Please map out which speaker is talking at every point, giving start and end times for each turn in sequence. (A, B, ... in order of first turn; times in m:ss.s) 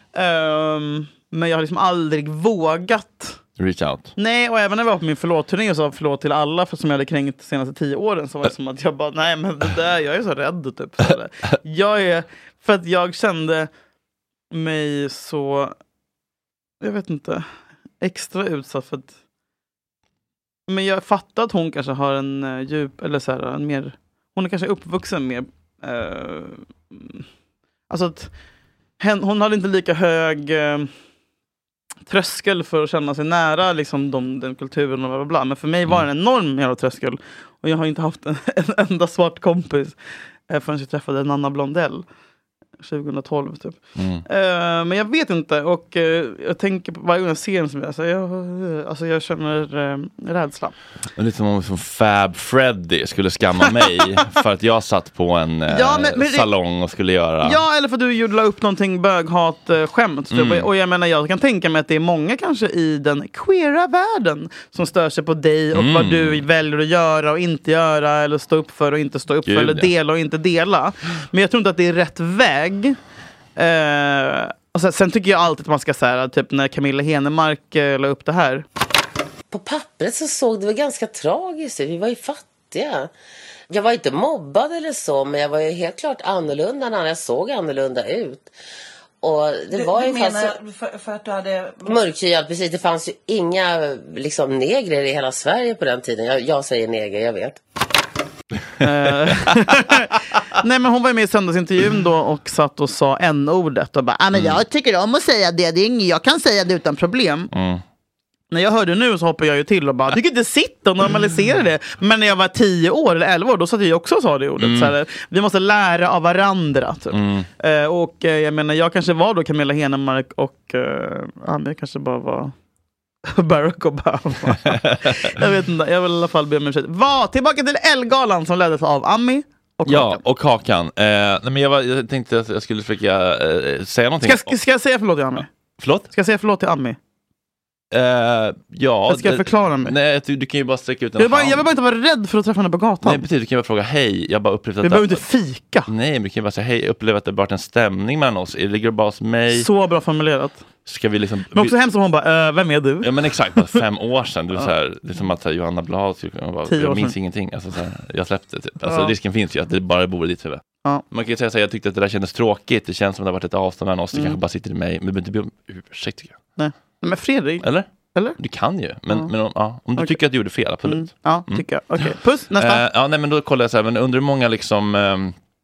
0:00.1-0:03.4 A
0:03.6-0:04.1 B
0:04.2-0:13.7 A
0:14.5-0:15.7 A
0:16.8-0:17.4 A
0:18.0-0:19.1 A
0:20.7-0:27.2 A
0:27.9-0:28.3 A
0:29.0-0:30.9 A
0:32.1-0:40.0 A
0:40.5-0:42.0 A
0:42.8-0:50.7 A
0:44.0-0:44.2 B
0:51.2-0:57.6 B
0:55.7-0:56.5 A
0:57.4-1:13.0 A
1:00.3-1:00.7 B
1:05.7-1:06.4 B
1:09.4-1:09.9 B
1:13.6-1:18.6 A
1:19.5-1:23.1 C
1:23.7-1:28.5 C
1:29.2-1:30.5 C
1:29.7-1:32.0 D
1:31.8-1:37.6 C
1:38.8-1:47.5 A
1:47.5-1:47.8 B
1:48.5-2:02.5 A
1:54.6-1:54.9 B
1:57.1-1:57.5 B
2:03.3-2:10.2 A
2:09.8-2:14.5 B
2:14.2-2:15.5 A
2:15.8-2:16.1 B
2:16.1-2:17.0 A
2:17.9-2:21.6 B
2:19.1-2:19.9 A
2:21.2-2:23.2 A
2:23.0-2:25.2 B
2:24.8-2:25.9 A
2:25.9-2:29.7 B
2:29.5-2:30.6 A
2:30.8-2:31.7 B
2:31.5-2:33.1 A
2:33.0-2:46.4 B
2:36.7-2:37.1 A
2:38.8-2:39.1 A
2:46.6-2:48.4 A
2:48.4-2:55.3 B
2:50.8-2:52.8 A